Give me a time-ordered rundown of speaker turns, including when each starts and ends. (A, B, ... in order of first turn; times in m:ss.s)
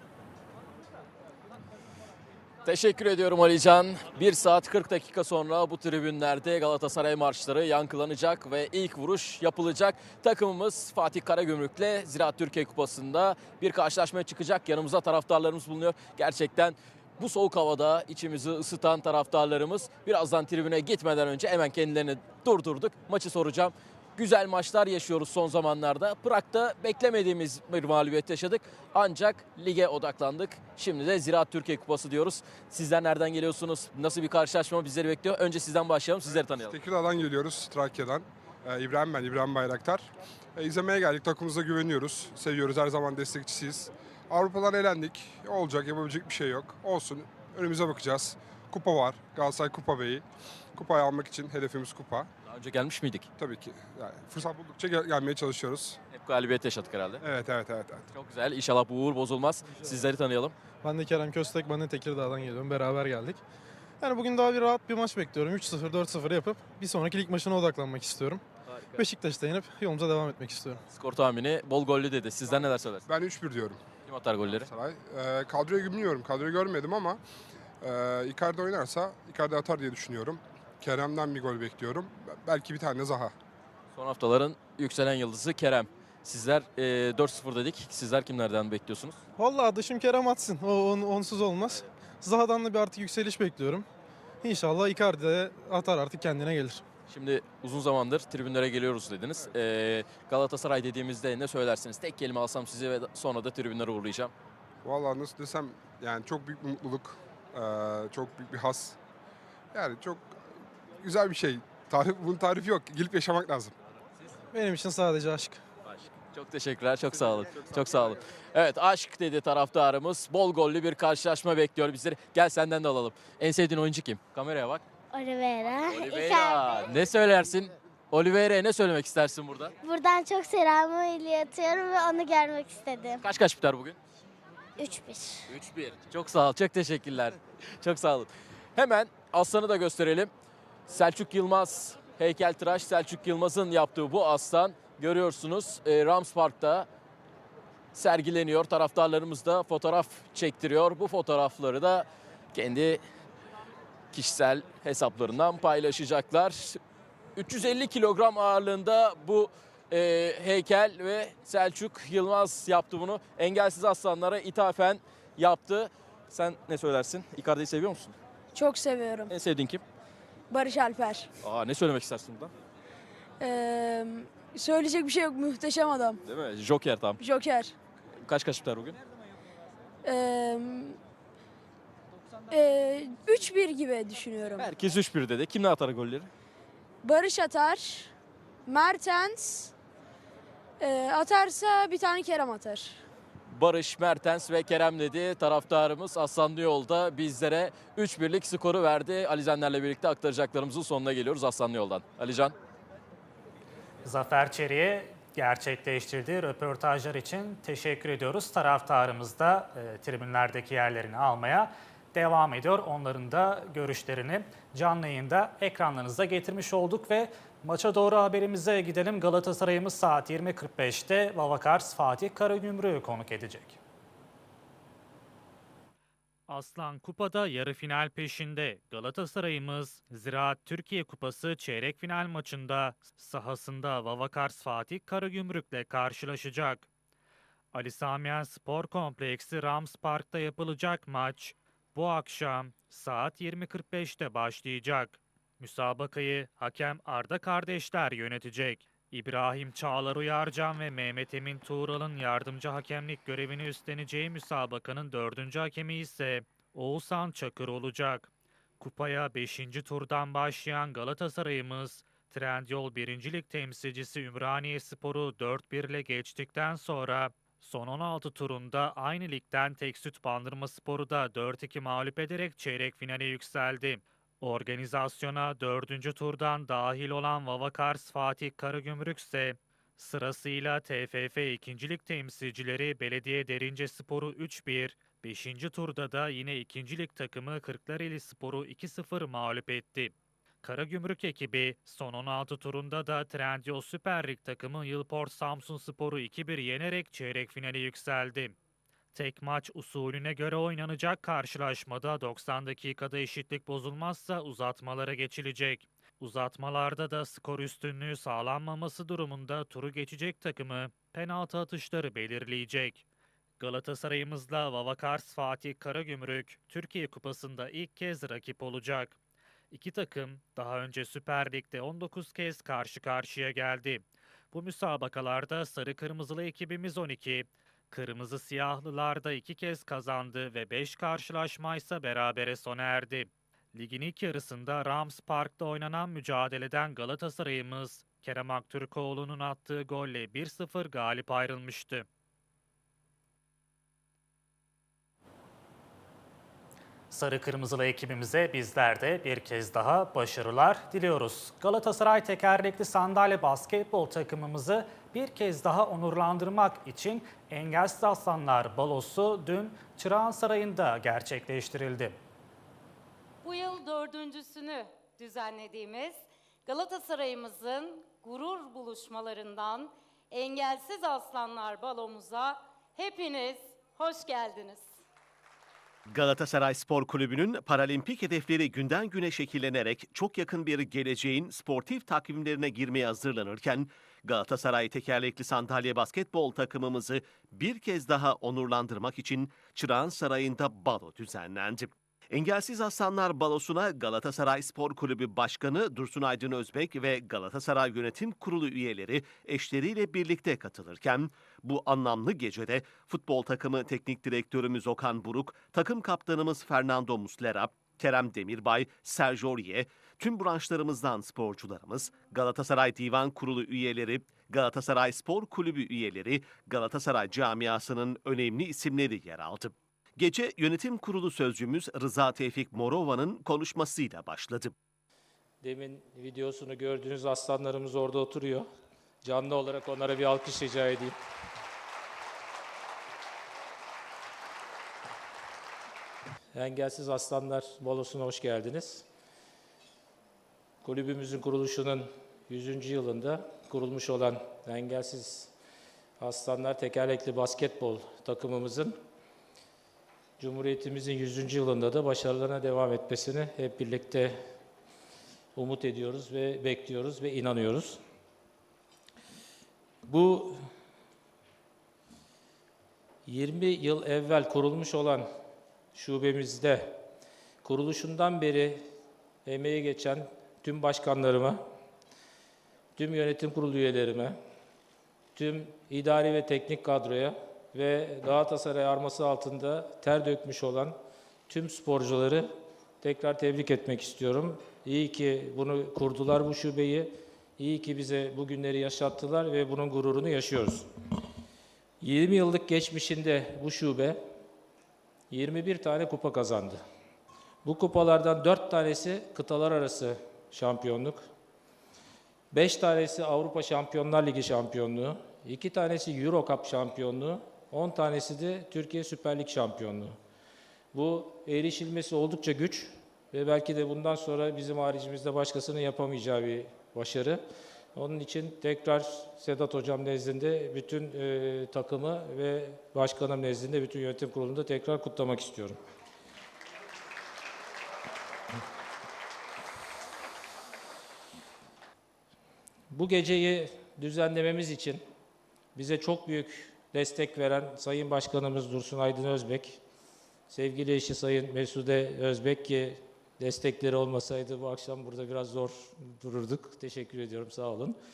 0:02.6-0:36.8 A
0:36.2-0:50.2 B
0:50.8-0:52.3 B
0:52.5-0:53.3 A
0:53.4-0:56.0 B
0:56.1-0:57.2 A
0:57.2-0:58.1 B
0:58.1-1:00.5 A
1:00.8-1:03.4 C
1:04.0-1:08.4 C
1:09.0-1:10.8 C
1:10.9-1:13.0 A
1:13.1-1:13.8 B
1:14.1-1:14.7 A
1:14.5-1:17.2 B
1:17.8-1:23.4 B
1:23.9-1:29.2 A
1:29.4-1:33.9 C
1:34.4-1:36.8 C
1:37.1-1:44.3 A
1:44.8-1:49.0 B
1:49.7-1:53.7 B
1:54.5-1:55.6 C
1:55.9-2:04.8 A
2:05.1-2:06.8 D
2:05.9-2:09.7 A
2:09.8-2:13.2 D
2:13.2-2:14.0 A
2:14.8-2:15.5 D
2:15.5-2:20.3 A
2:20.9-2:26.9 A
2:27.9-2:33.0 A
2:34.1-2:36.8 A
2:37.4-2:48.2 A
2:48.5-2:49.3 E
2:49.3-2:49.8 A
2:50.5-2:51.3 E
2:51.4-2:52.5 A
2:53.4-2:56.2 E
2:56.3-2:57.2 A
2:57.2-2:57.7 E
2:58.2-2:59.0 A
3:00.0-3:01.0 E
3:02.5-3:04.7 E
3:04.6-3:06.3 A
3:07.0-3:08.1 E
3:08.7-3:09.7 E
3:10.8-3:13.0 E
3:13.5-3:22.6 A
3:24.0-3:43.8 F
3:46.5-3:56.9 F
3:57.7-4:58.6 F
4:59.1-5:13.0 F
5:13.6-5:19.2 F
5:19.7-5:42.1 F
5:47.1-6:02.2 F
6:03.4-6:14.8 G
6:16.1-7:04.7 H
7:05.6-7:08.7 I
7:09.2-7:11.2 I
7:16.5-7:19.0 I
7:20.8-7:25.5 I
7:26.2-7:29.0 I
7:30.4-7:34.4 I
7:35.6-7:38.0 I
7:40.1-7:40.6 I
7:43.3-7:45.3 I
7:46.0-7:47.0 I
7:47.6-7:48.9 I
7:49.4-7:51.6 I
7:53.0-7:54.4 I
7:55.4-8:01.0 I
8:01.5-8:02.5 I
8:03.0-8:10.9 I
8:12.0-8:14.2 I
8:15.3-8:16.8 I
8:17.6-8:21.2 I
8:22.5-8:30.2 I
8:30.9-8:37.4 I
8:38.0-8:45.8 I
8:52.9-8:55.0 I
8:55.8-8:59.8 I
9:00.5-9:08.0 I